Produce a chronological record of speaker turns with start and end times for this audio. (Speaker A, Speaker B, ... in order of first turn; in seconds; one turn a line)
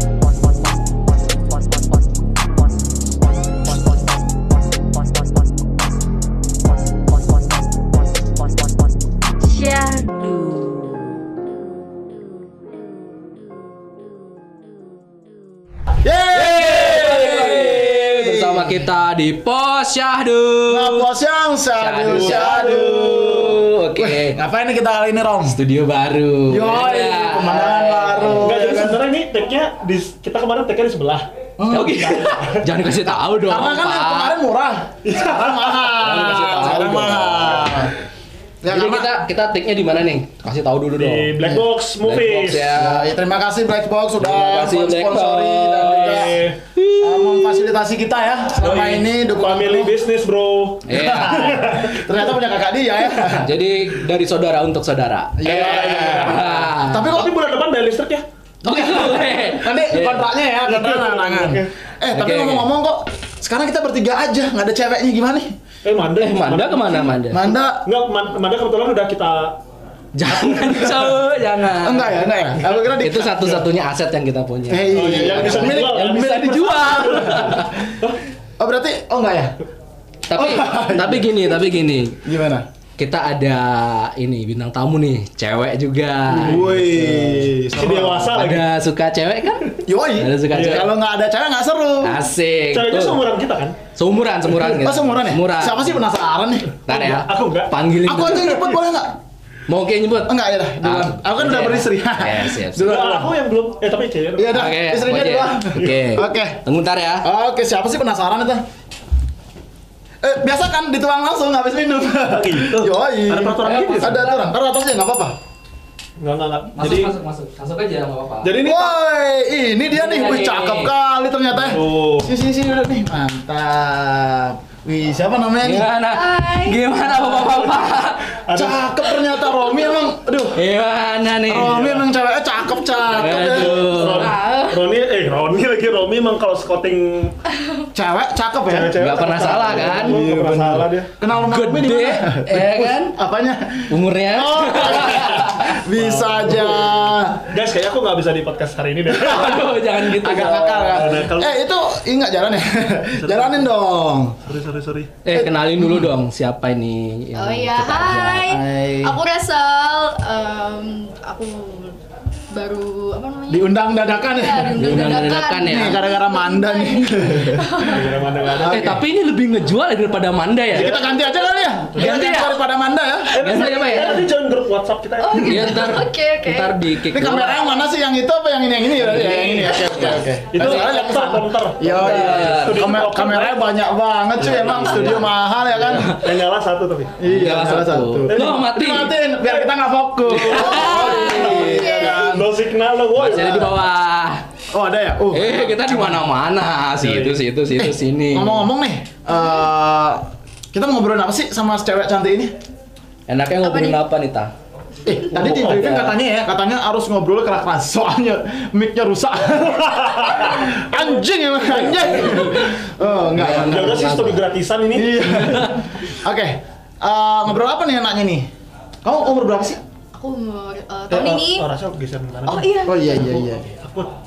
Speaker A: 1.5-1.8
Speaker A: 3.7-4.2
Speaker A: 5.0-5.4
Speaker A: 7.1-7.6
Speaker A: 8.2-8.8
Speaker A: 9.4-11.2
Speaker B: 16.0-18.8
Speaker C: 16.3-21.1
Speaker B: 20.7-25.6
Speaker C: 21.8-24.4
Speaker D: 22.0-22.9
Speaker C: 25.4-28.8
Speaker B: 26.5-29.1
Speaker D: 28.4-31.3
Speaker B: 31.6-32.1
Speaker C: 31.7-34.4
Speaker B: 33.4-37.9
Speaker D: 35.0-36.1
Speaker C: 36.0-37.8
Speaker B: 38.6-39.1
Speaker C: 38.7-41.4
Speaker D: 40.9-42.8
Speaker B: 41.4-41.7
Speaker C: 42.0-43.1
Speaker B: 42.8-46.4
Speaker C: 44.2-47.7
Speaker D: 45.8-46.6
Speaker B: 47.0-50.0
Speaker D: 48.6-52.0
Speaker C: 50.9-51.6
Speaker B: 50.9-53.5
Speaker C: 53.1-57.2
Speaker B: 55.4-57.3
Speaker D: 55.4-58.2
Speaker C: 58.6-60.3
Speaker B: 58.6-65.5
Speaker D: 60.7-61.7
Speaker C: 62.1-62.7
Speaker D: 65.8-67.2
Speaker C: 66.1-67.4
Speaker B: 67.3-67.9
Speaker D: 67.8-69.6
Speaker C: 70.1-72.2
Speaker B: 71.8-73.6
Speaker C: 72.8-77.8
Speaker B: 74.7-78.0
Speaker D: 74.9-76.4
Speaker B: 78.6-79.5
Speaker C: 80.3-82.2
Speaker B: 80.3-81.5
Speaker B: 82.2-82.7
Speaker C: 83.0-87.5
Speaker B: 86.3-88.3
Speaker D: 87.7-88.7
Speaker C: 88.3-89.6
Speaker B: 89.8-92.2
Speaker C: 90.2-90.9
Speaker D: 90.5-90.9
Speaker C: 92.0-93.2
Speaker D: 92.7-93.8
Speaker C: 93.9-96.0
Speaker B: 94.6-96.7
Speaker D: 96.8-97.7
Speaker C: 96.9-98.7
Speaker B: 98.0-99.2
Speaker C: 99.7-103.0
Speaker B: 100.2-103.3
Speaker D: 102.8-104.7
Speaker B: 104.3-106.6
Speaker C: 104.5-107.3
Speaker B: 107.2-108.6
Speaker B: 110.2-115.3
Speaker D: 112.3-114.3
Speaker C: 113.6-114.4
Speaker D: 116.2-117.1
Speaker C: 116.8-118.5
Speaker D: 118.4-118.9
Speaker B: 118.6-125.9
Speaker C: 119.9-120.9
Speaker D: 121.5-122.3
Speaker C: 125.6-128.3
Speaker E: 126.1-126.8
Speaker D: 127.1-128.9
Speaker B: 128.5-130.7
Speaker C: 130.6-131.8
Speaker B: 131.5-133.8
Speaker D: 131.7-132.1
Speaker C: 133.1-134.8
Speaker D: 133.4-137.4
Speaker B: 137.9-147.5
Speaker D: 138.7-141.1
Speaker C: 139.0-140.2
Speaker C: 141.5-143.2
Speaker C: 143.9-145.8
Speaker D: 145.9-149.8
Speaker C: 149.2-151.1
Speaker B: 149.2-154.4
Speaker D: 150.9-151.6
Speaker D: 153.2-153.7
Speaker D: 154.4-155.2
Speaker C: 155.2-158.5
Speaker B: 155.3-156.1
Speaker E: 157.3-162.0
Speaker B: 158.4-159.2
Speaker E: 162.5-168.1
Speaker B: 163.5-165.1
Speaker C: 164.8-166.0
Speaker B: 165.6-167.9
Speaker D: 167.9-168.9
Speaker B: 168.5-169.0
Speaker C: 168.7-171.0
Speaker B: 170.7-173.5
Speaker D: 170.7-171.2
Speaker D: 171.9-172.2
Speaker C: 172.0-172.6
Speaker D: 173.3-176.0
Speaker C: 173.3-174.3
Speaker E: 175.2-177.0
Speaker C: 175.3-177.7
Speaker B: 177.1-186.2
Speaker E: 177.6-177.8
Speaker C: 179.0-180.3
Speaker D: 180.5-183.7
Speaker E: 180.8-181.2
Speaker C: 181.8-182.9
Speaker D: 184.4-187.2
Speaker C: 185.9-186.3
Speaker B: 187.2-192.5
Speaker C: 187.3-189.2
Speaker D: 188.3-188.7
Speaker D: 190.3-193.8
Speaker C: 190.3-191.9
Speaker E: 191.5-192.3
Speaker C: 193.2-194.4
Speaker B: 193.2-193.8
Speaker B: 194.7-196.2
Speaker C: 195.3-198.7
Speaker D: 197.0-197.4
Speaker B: 197.8-202.5
Speaker C: 203.3-204.5
Speaker E: 203.6-204.0
Speaker B: 205.0-214.1
Speaker C: 205.3-206.2
Speaker D: 210.1-212.5
Speaker C: 211.7-212.6
Speaker C: 213.2-214.5
Speaker D: 213.5-215.2
Speaker B: 214.9-218.5
Speaker C: 215.2-215.8
Speaker B: 219.0-219.8
Speaker E: 220.1-221.7
Speaker D: 221.1-224.1
Speaker E: 222.5-223.4
Speaker B: 222.7-223.7